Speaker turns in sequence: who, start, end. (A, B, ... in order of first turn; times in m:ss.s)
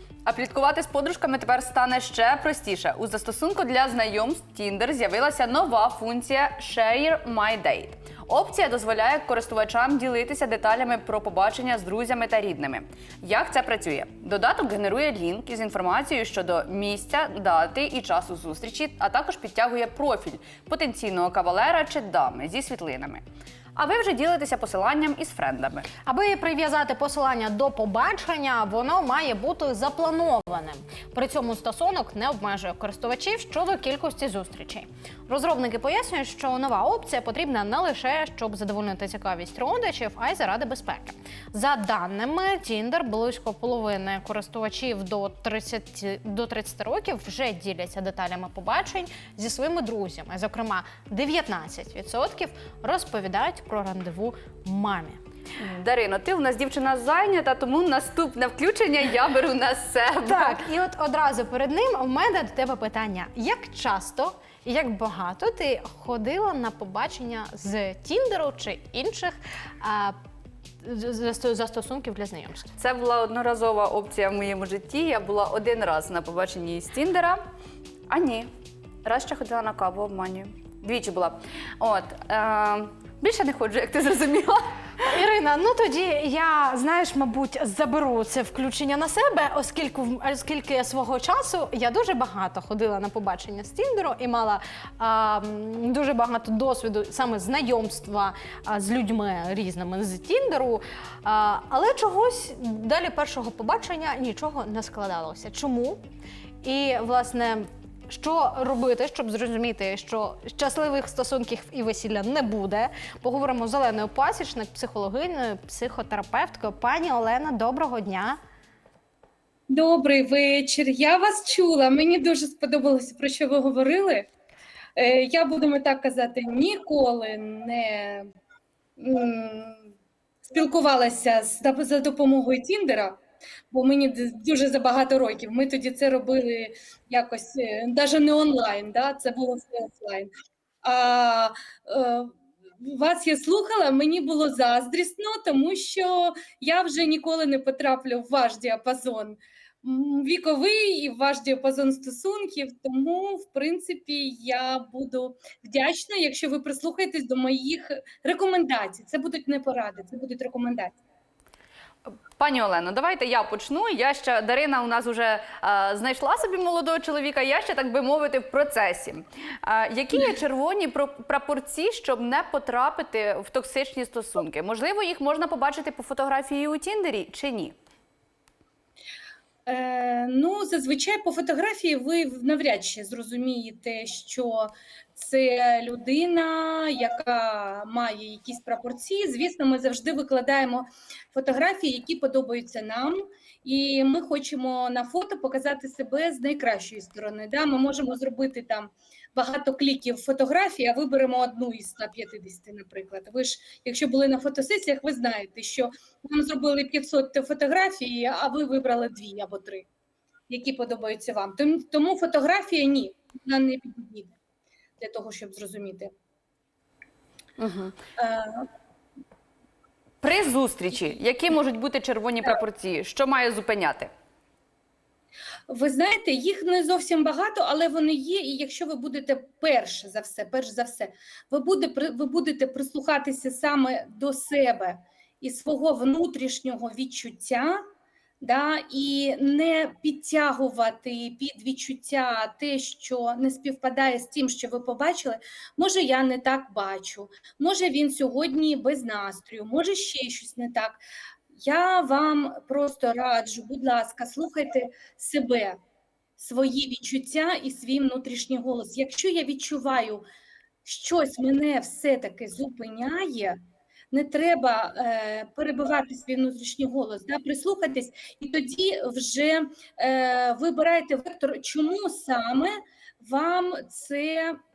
0:00.2-0:23.2 A
0:23.8-0:25.9 A
0:26.0-0:55.2 B
0:55.6-1:00.6 A
1:00.2-1:10.2 B
1:10.8-1:12.7 B
1:12.8-1:17.4 A
1:18.1-1:18.5 A
1:19.0-1:25.0 A
1:25.0-1:46.0 B
1:46.6-1:58.4 B
1:59.7-2:04.3 C
2:05.0-2:08.3 C
2:09.0-2:09.9 C
2:10.4-2:13.2 C
2:13.7-2:20.3 C
2:20.8-2:41.0 C
2:42.0-2:57.8 A
2:59.6-3:29.9 C
3:30.5-3:34.3 C
3:35.0-3:36.1 C
3:37.6-3:38.0 A
3:38.2-3:38.7 C
3:40.2-3:44.1 A
3:45.7-3:57.8 C
3:58.4-4:15.8 C
4:16.4-4:20.2 C
4:20.8-4:23.6 C
4:24.1-4:34.6 C